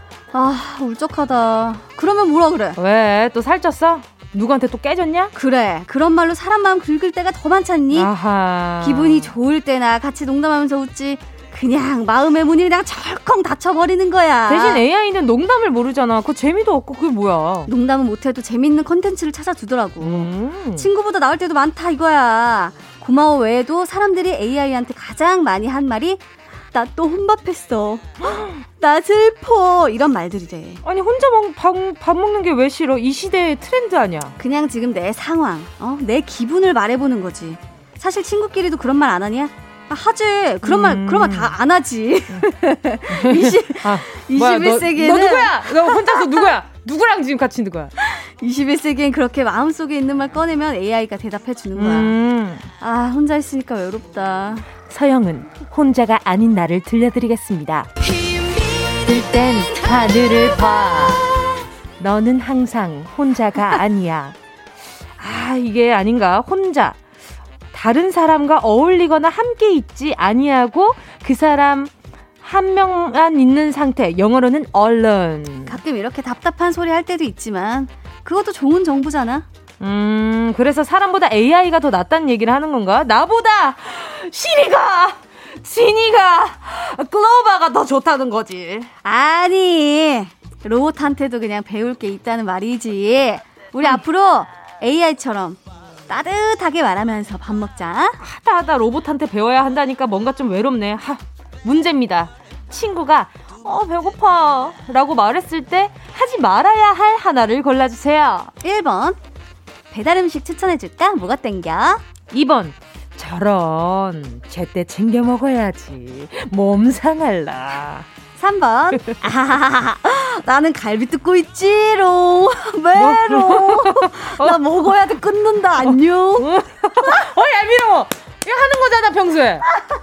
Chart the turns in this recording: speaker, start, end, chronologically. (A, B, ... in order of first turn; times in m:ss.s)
0:00.3-0:02.8 A
0:02.8-0:05.3 B
0:05.4-0:08.1 A
0:07.9-0:09.3 B
0:08.8-0:14.8 A
0:14.5-0:17.7 B
0:17.7-0:30.8 A
0:20.0-0:20.9 B
0:30.8-0:34.4 B
0:34.4-0:46.2 A
0:40.6-0:41.6 B
0:42.3-0:47.9 B
0:48.0-0:52.2 A
0:51.8-0:52.7 B
0:52.8-0:54.7 A
0:54.9-0:57.9 B
0:58.1-0:58.9 A
0:59.0-1:01.3 B
1:02.0-1:04.4 B
1:05.2-1:07.0 B
1:07.7-1:15.8 B
1:15.7-1:19.5 A
1:19.8-1:28.9 B
1:29.0-1:38.2 A
1:38.2-1:48.5 B
1:48.6-1:49.2 A
1:49.9-1:52.0 A
1:52.3-1:58.1 B
1:58.4-2:06.5 A
2:03.0-2:04.9 B
2:05.8-2:09.7 B